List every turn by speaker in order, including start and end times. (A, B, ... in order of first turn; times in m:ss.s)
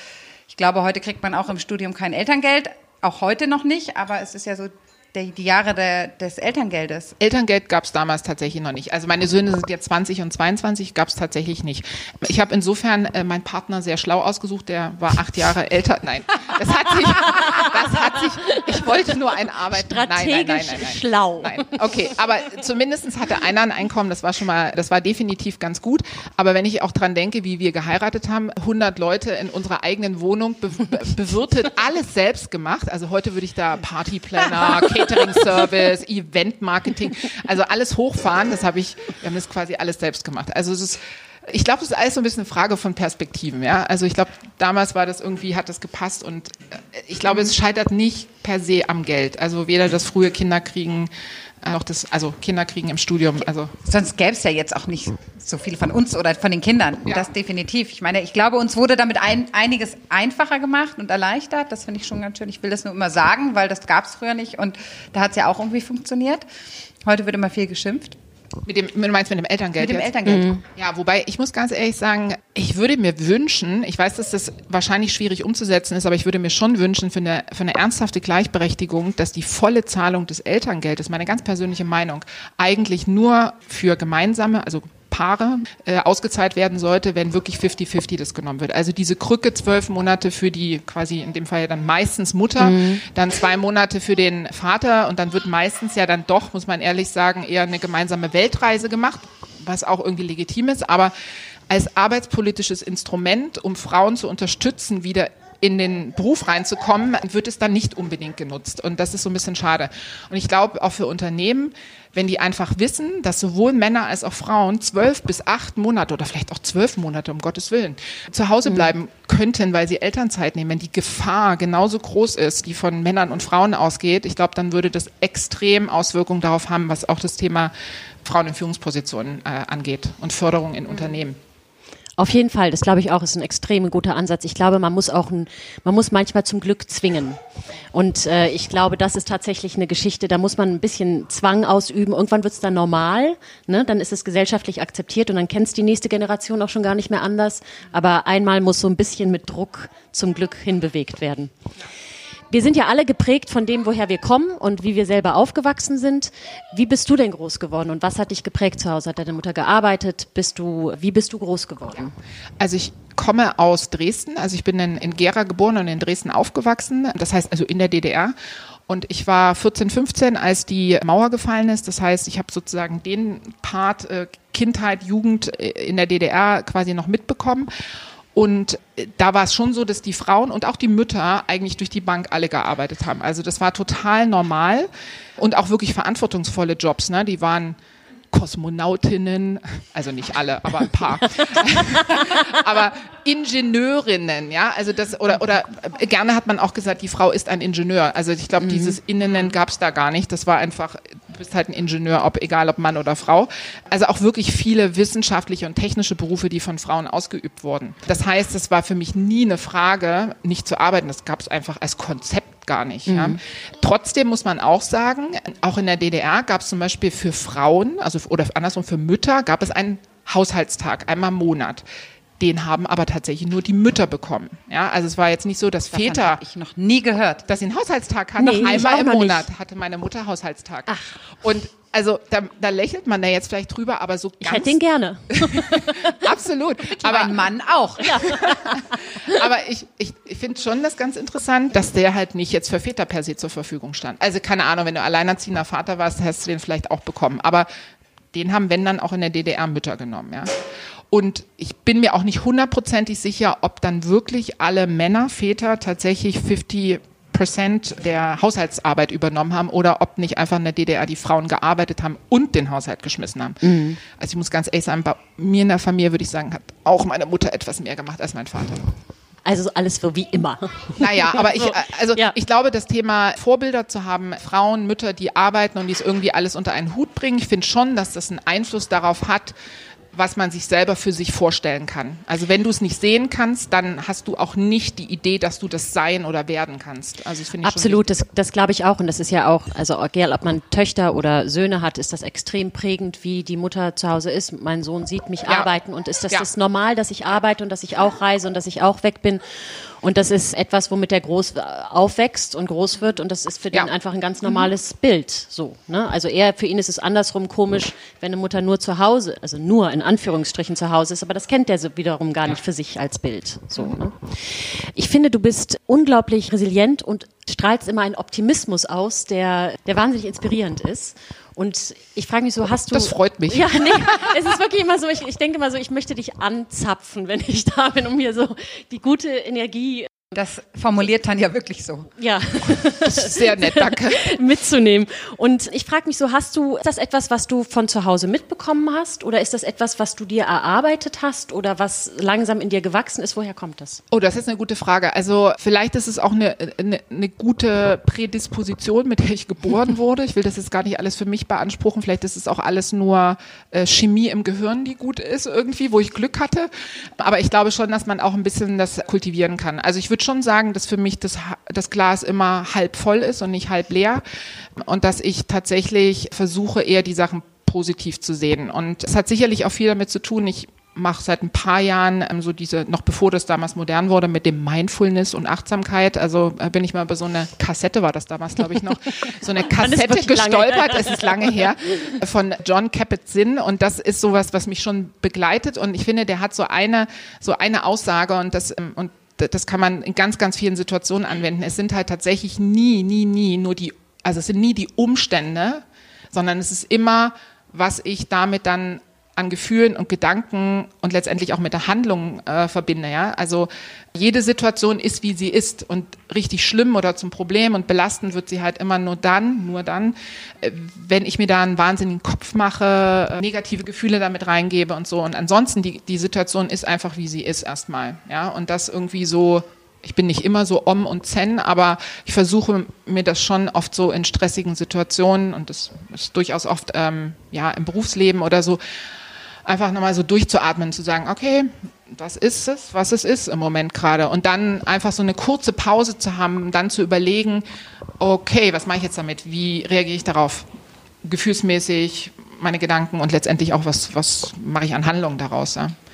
0:00.5-0:07.2 A
0:07.2-0:51.1 B
0:17.2-0:17.7 C
0:19.7-0:22.0 C
0:51.6-0:53.7 B
0:53.8-1:06.4 A
1:07.0-1:08.2 A
1:08.6-1:41.1 B
1:09.8-1:10.5 A
1:10.3-1:10.6 C
1:32.6-1:33.0 C
1:41.7-2:07.7 B
2:08.2-2:11.4 B
2:12.2-2:17.4 C
2:17.9-2:31.5 C
2:32.5-2:42.1 C
2:42.6-2:48.3 B
2:48.9-2:57.7 B
2:58.3-3:07.8 B
3:08.3-3:41.8 B
3:11.9-3:12.4 C
3:18.6-3:19.0 C
3:33.1-3:33.4 C
3:42.4-3:46.4 B
3:45.9-3:47.4 A
3:47.5-3:54.8 B
3:48.4-3:49.5 C
3:50.9-3:51.2 C
3:54.4-3:56.3 C
3:55.3-3:57.5 B
3:57.0-3:58.3 A
3:58.0-3:59.5 C
3:58.0-4:07.7 B
4:08.3-4:10.6 B
4:11.1-4:28.9 B
4:23.6-4:24.0 C
4:29.4-4:32.3 C
4:31.0-4:39.5 B
4:40.1-4:48.1 B
4:47.6-5:30.1 C
4:55.5-4:55.7 B
5:22.9-5:24.4 B
5:30.3-5:32.1 A
5:32.2-5:44.0 C
5:33.0-5:34.4 B
5:44.1-6:04.2 B
6:04.8-7:08.8 B
6:19.6-6:21.7 C
7:09.6-7:17.6 B
7:18.2-7:20.7 B
7:21.2-7:25.9 B